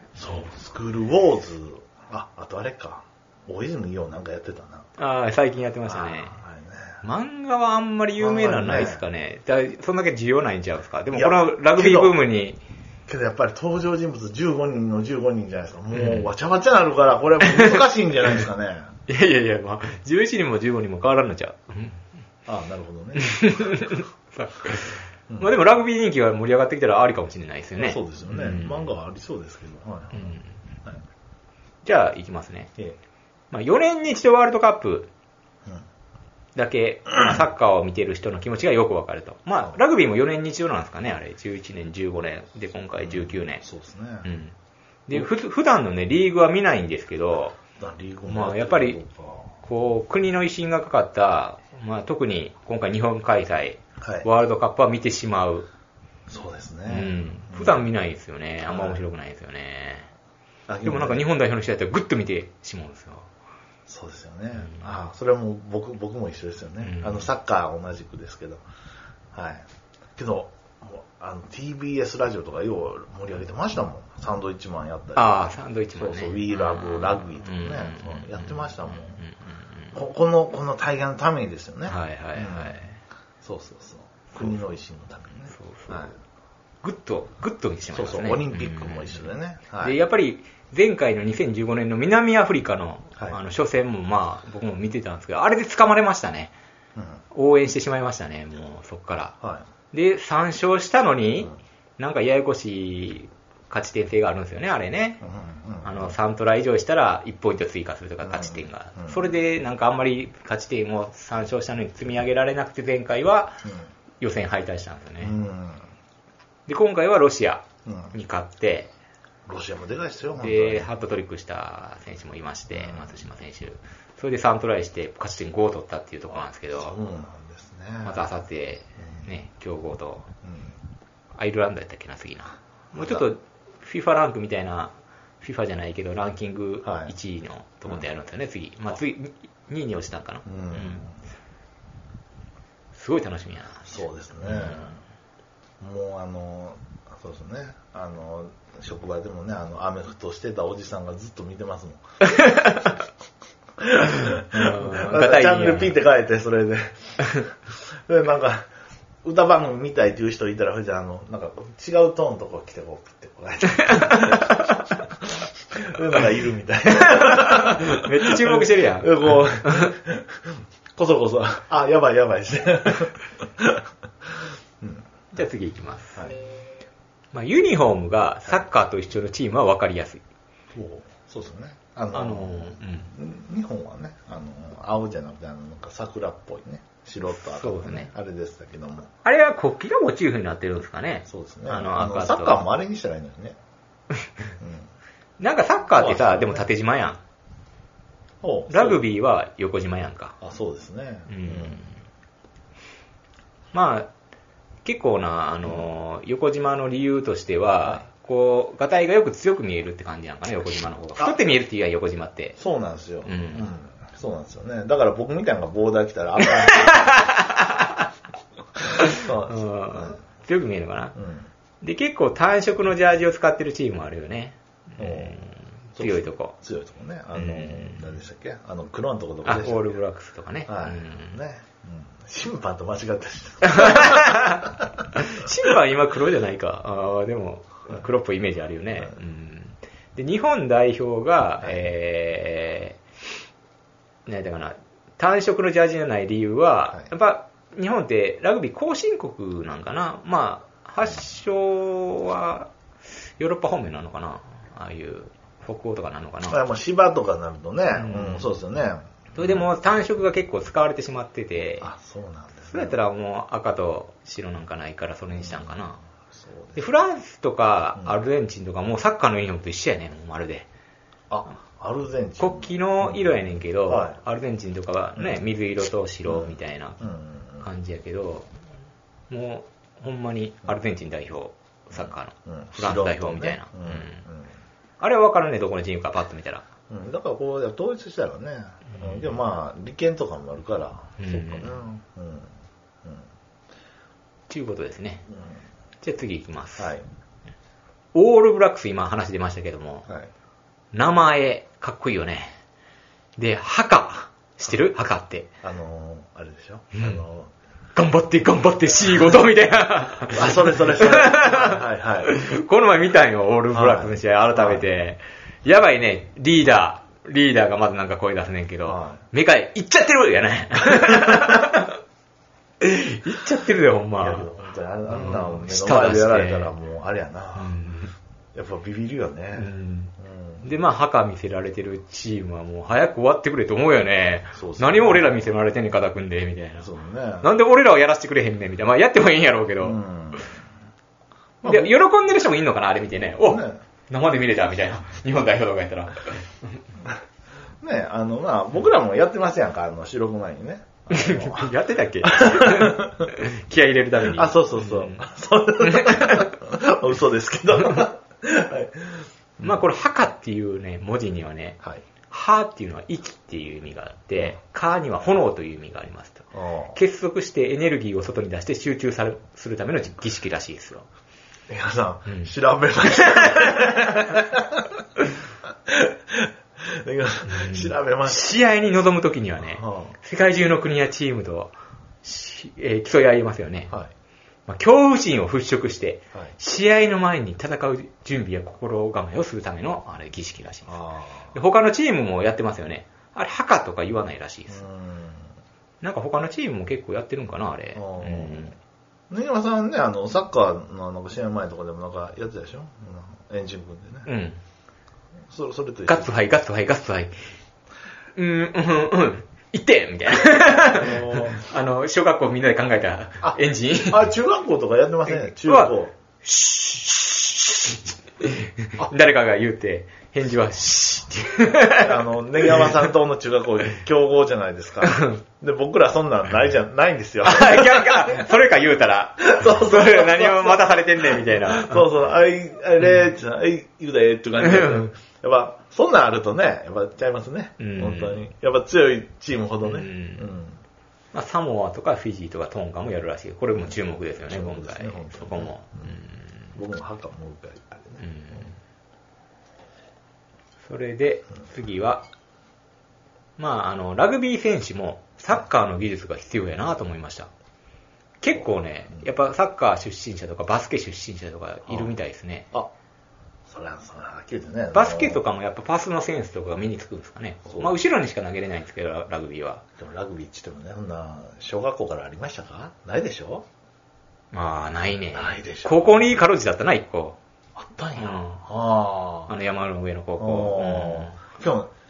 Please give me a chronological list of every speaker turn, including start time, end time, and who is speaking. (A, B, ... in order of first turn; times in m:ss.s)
0:00.2-0:04.9 A
0:05.0-0:06.4 B
0:05.9-0:07.0 A
0:07.0-0:12.6 B
0:08.2-0:09.0 A
0:11.1-0:12.2 A
0:13.1-0:18.9 A
0:15.9-0:16.3 B
0:17.5-0:17.8 B
0:19.1-0:22.0 B
0:22.4-0:23.8 A
0:23.2-0:28.9 B
0:27.8-0:31.0 A
0:30.1-0:30.5 B
0:31.8-0:32.7 B
0:33.5-0:35.1 B
0:36.6-0:43.6 B
0:43.0-0:44.3 A
0:44.2-0:44.5 B
0:45.1-0:47.6 B
0:47.8-0:49.5 A
0:48.3-0:49.0 B
0:49.6-0:55.7 B
0:54.0-0:54.3 A
0:56.3-0:57.8 A
0:56.9-1:00.1 B
0:58.7-0:59.0 A
1:00.7-1:01.2 A
1:00.8-1:03.3 B
1:03.9-1:08.6 A
1:06.8-1:07.3 B
1:09.3-1:09.6 A
1:10.2-1:15.4 A
1:15.1-1:20.0 B
1:15.9-1:19.2 A
1:19.9-1:22.8 A
1:21.9-1:23.0 B
1:23.4-1:26.1 A
1:25.5-1:26.1 B
1:26.8-1:29.3 B
1:27.9-1:30.0 A
1:29.8-1:36.5 B
1:37.0-1:37.2 A
1:37.3-1:39.4 B
1:39.9-1:45.2 B
1:45.2-1:46.1 A
1:45.8-1:53.7 B
1:48.2-1:49.3 A
1:54.2-1:55.4 B
1:55.2-1:55.9 A
1:56.7-1:58.9 B
1:57.9-1:58.1 A
1:59.4-2:00.9 A
2:00.4-2:07.0 B
2:02.7-2:03.1 A
2:06.7-2:08.2 A
2:08.0-2:10.3 B
2:10.4-2:10.7 A
2:11.4-2:21.1 B
2:12.9-2:13.2 A
2:16.8-2:17.1 A
2:20.4-2:21.1 A
2:22.9-2:25.0 B
2:23.9-2:25.0 A
2:25.8-2:32.0 A
2:32.2-2:32.9 B
2:33.8-2:37.5 A
2:34.5-2:36.0 B
2:38.1-2:38.7 A
2:39.2-2:55.0 A
2:43.8-2:44.7 B
2:47.0-2:49.9 B
2:55.3-2:56.2 B
2:57.3-3:00.2 B
3:00.7-3:09.1 A
3:02.1-3:03.1 B
3:07.3-3:08.1 B
3:09.2-3:12.6 B
3:11.3-3:13.6 A
3:14.6-3:14.9 A
3:15.4-3:17.2 B
3:16.0-3:16.6 A
3:18.4-3:19.0 A
3:18.7-3:20.4 B
3:20.4-3:21.8 A
3:21.3-3:21.9 B
3:23.7-3:24.1 B
3:24.8-3:32.6 B
3:32.6-3:37.3 A
3:33.2-3:33.7 B
3:36.4-3:38.1 B
3:38.9-3:40.2 A
3:39.0-3:41.2 B
3:41.2-3:41.5 A
3:41.8-3:46.5 B
3:45.0-3:45.4 A
3:46.0-3:49.9 A
3:47.4-3:48.0 B
3:49.4-3:51.4 B
3:50.7-3:55.0 A
3:53.6-4:03.0 B
4:04.3-4:12.7 B
4:13.4-4:16.6 B
4:16.5-4:19.6 A
4:17.9-4:18.5 B
4:19.4-4:21.9 B
4:21.8-4:23.0 A
4:22.7-4:26.0 B
4:25.4-4:25.7 A
4:26.4-4:26.8 A
4:26.8-4:30.7 B
4:31.3-4:33.4 A
4:32.4-4:37.0 B
4:33.9-4:34.2 A
4:36.3-4:37.6 A
4:37.6-4:38.5 B
4:39.3-4:44.2 B
4:41.9-4:44.5 A
4:45.0-4:46.6 B
4:46.9-4:52.5 A
4:48.9-4:49.2 B
4:51.2-4:51.8 B
4:54.5-4:55.2 B
4:56.0-4:56.9 B
4:56.8-4:57.0 A
4:58.1-5:00.1 B
5:00.9-5:02.6 B
5:03.4-5:05.5 B
5:05.6-5:07.5 A
5:06.9-5:07.2 B
5:07.9-5:21.9 B
5:10.3-5:12.3 A
5:13.7-5:14.8 A
5:18.9-5:19.2 A
5:21.0-5:21.4 A
5:22.8-5:24.5 B
5:24.2-5:27.7 A
5:25.1-5:26.7 B
5:27.6-5:28.1 B
5:28.6-5:30.6 A
5:29.6-5:36.9 B
5:34.6-5:35.5 A
5:36.8-5:37.5 A
5:37.4-5:40.0 B
5:39.8-5:40.5 A
5:41.6-5:41.9 A
5:41.6-5:46.8 B
5:43.4-5:43.8 A
5:47.8-5:51.7 A
5:51.1-5:55.2 B
5:52.2-5:53.3 A
5:54.3-5:59.8 A
5:55.8-5:56.5 B
5:59.6-6:11.1 B
6:06.5-6:07.0 A
6:11.7-6:15.0 A
6:13.3-6:14.1 B
6:15.9-6:18.5 A
6:17.4-6:21.7 B
6:19.6-6:20.1 A
6:22.2-6:23.9 B
6:24.7-6:31.0 B
6:30.9-6:31.6 A
6:31.5-6:34.8 B
6:34.7-6:35.5 A
6:36.0-6:38.8 B
6:38.0-6:38.7 A
6:39.3-6:44.3 A
6:44.3-6:44.6 B
6:45.5-6:46.3 A
6:46.1-6:47.3 B
6:48.4-6:54.3 B
6:50.9-6:51.6 A
6:53.4-6:56.1 A
6:55.3-7:03.0 B
7:02.0-7:08.4 A
7:05.0-7:05.4 B
7:07.4-7:12.0 B
7:09.4-7:20.8 A
7:14.6-7:15.1 B
7:17.8-7:18.4 B
7:19.8-7:20.5 B
7:21.3-7:26.7 B
7:24.5-7:26.1 A
7:26.8-7:28.2 A
7:28.2-7:28.8 B
7:30.8-7:32.2 B
7:33.6-7:37.5 B
7:38.4-7:42.7 B
7:43.7-7:45.4 A
7:44.9-7:49.8 B
7:50.0-7:53.6 A
7:54.5-7:57.4 B
7:55.3-7:56.3 A
7:57.8-7:59.5 A
7:58.2-7:58.6 B
7:59.5-8:01.4 B
8:00.4-8:01.9 A